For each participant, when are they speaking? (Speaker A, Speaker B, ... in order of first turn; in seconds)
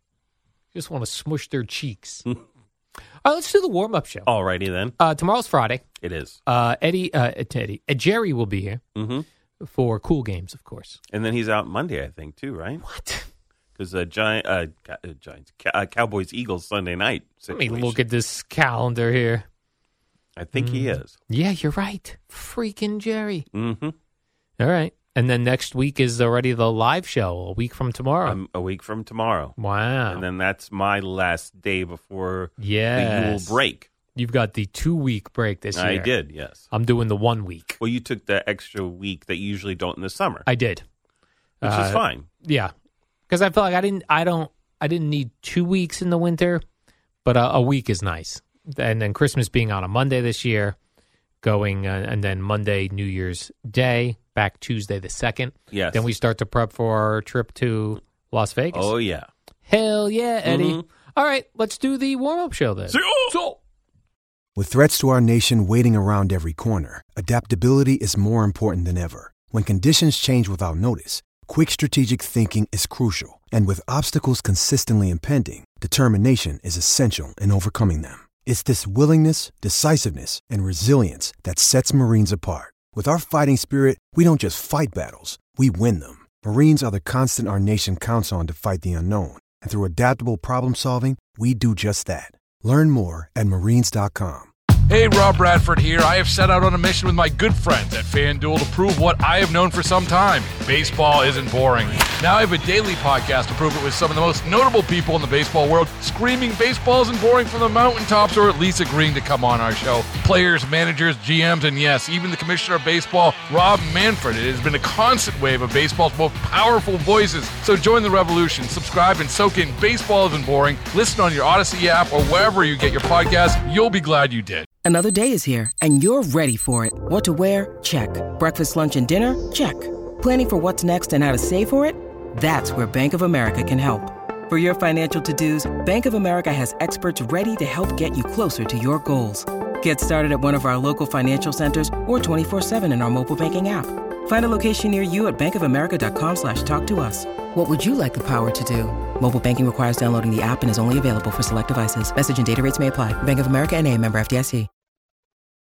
Speaker A: 0.7-2.2, 3.2-4.3, 5.0-5.8, 6.5-8.8, 9.6-11.0, 12.8-13.2, 17.5-19.4, 20.6-23.4, 24.6-28.4, 29.6-30.2, 32.6-33.6, 34.1-36.1, 36.7-37.8, 40.5-40.8, 41.6-42.7, 43.3-46.6, 47.2-50.8, 51.4-58.9, 59.7-63.6
Speaker B: 4.3-5.0, 6.0-6.4, 8.9-9.2, 11.1-12.8, 13.8-18.0, 20.4-21.1, 23.5-23.9, 28.2-29.6, 30.1-33.9, 35.7-36.7, 37.8-40.5, 41.6-42.2, 55.7-56.1, 58.7-59.3, 60.5-60.8, 62.9-63.3
Speaker C: 64.6-94.5
Speaker D: 94.9-124.7
Speaker E: 124.8-154.7